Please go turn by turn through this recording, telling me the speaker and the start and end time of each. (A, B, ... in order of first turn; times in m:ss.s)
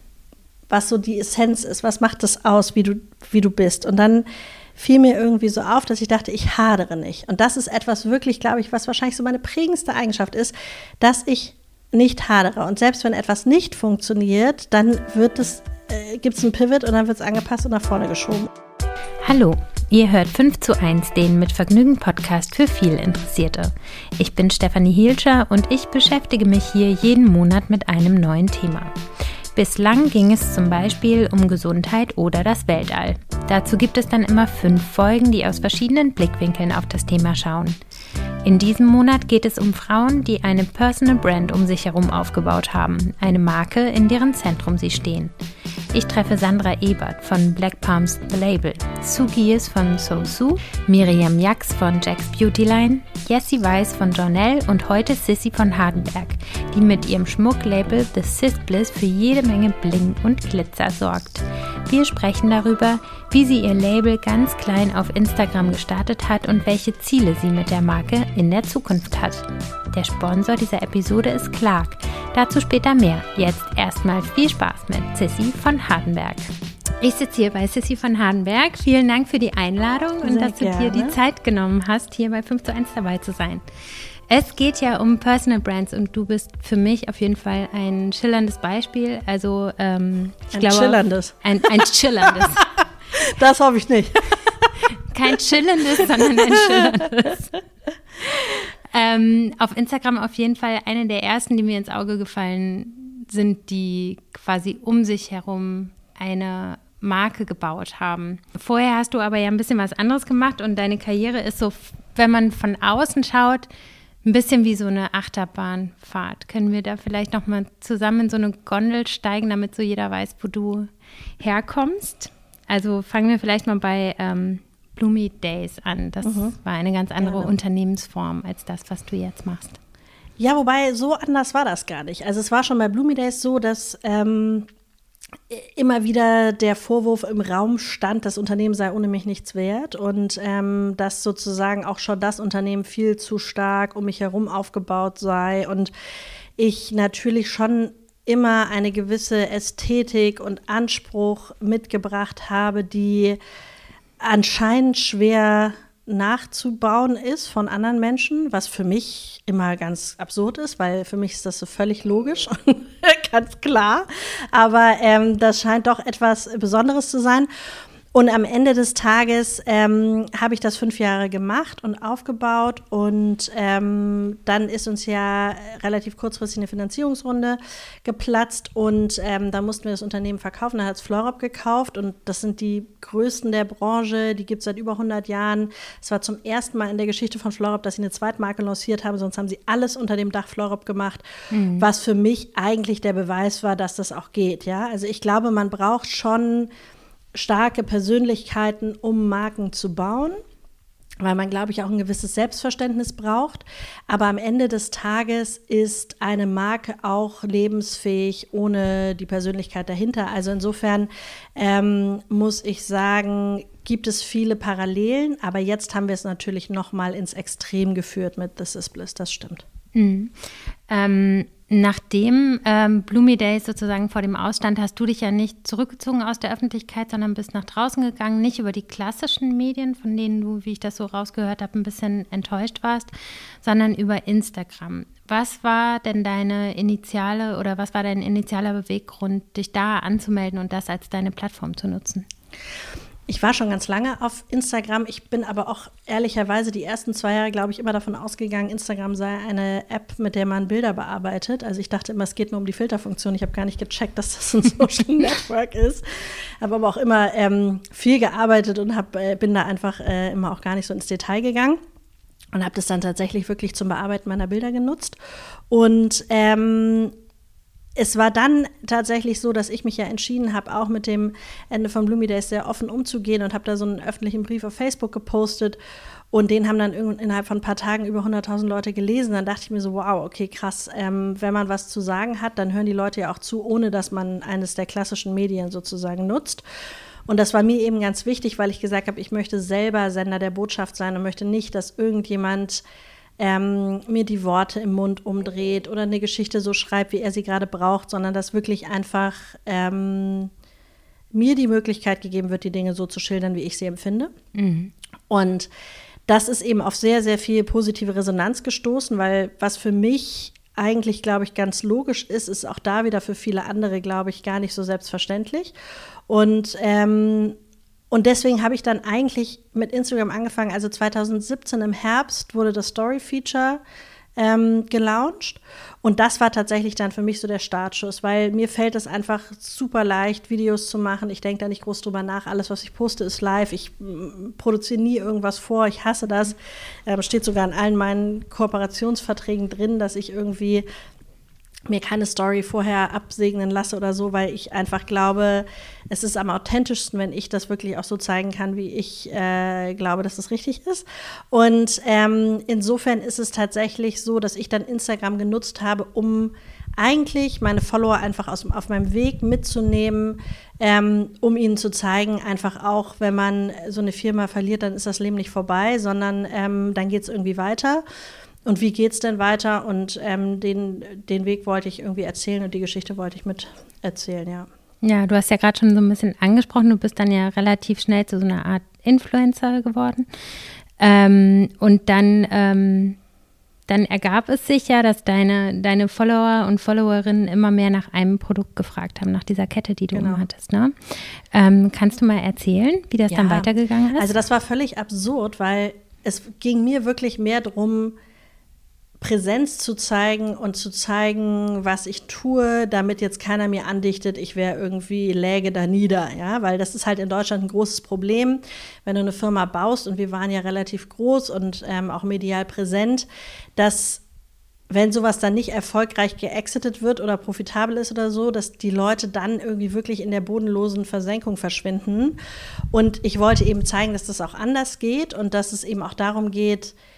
0:00.7-0:04.2 A
0:04.8-0:18.5 A
0:19.2-0:28.9 B
0:29.6-0:37.8 B
0:38.4-0:45.3 B
0:45.9-1:23.6 B
1:20.2-1:21.2 A
1:24.3-1:32.6 B
1:30.5-1:31.8 A
1:32.3-1:34.8 A
1:34.9-1:37.5 B
1:36.6-1:36.9 A
1:38.2-1:53.7 B
1:54.2-2:00.9 B
2:01.4-2:09.8 B
2:06.2-2:06.6 A
2:07.2-2:07.5 A
2:10.4-2:14.7 A
2:15.5-2:25.9 A
2:26.6-2:33.4 A
2:34.2-2:47.5 A
2:48.1-3:11.2 A
3:11.5-3:11.9 B
3:11.8-3:16.7 A
3:17.4-3:20.4 A
3:21.2-3:39.6 A
3:40.0-3:40.3 B
3:40.9-3:53.1 B
3:53.6-4:02.3 B
4:03.3-4:21.8 A
4:22.5-4:25.2 A
4:25.7-4:27.1 A
4:28.0-4:35.8 A
4:36.3-4:46.6 A
4:47.3-4:52.8 A
4:53.4-5:00.5 A
5:01.3-5:04.3 A
5:04.6-5:04.9 B
5:05.3-5:05.7 A
5:06.3-5:15.7 A
5:16.3-5:17.6 A
5:18.1-5:23.8 A
5:24.4-5:36.6 A
5:37.1-5:40.9 A
5:41.9-6:08.0 A
6:08.7-6:14.7 A
6:15.0-6:20.3 B
6:21.0-6:23.2 B
6:23.9-6:34.3 B
6:30.1-6:30.4 A
6:33.3-6:38.2 A
6:39.2-6:53.3 A
6:53.8-6:54.2 A
6:54.9-7:02.4 A
7:02.9-7:07.0 A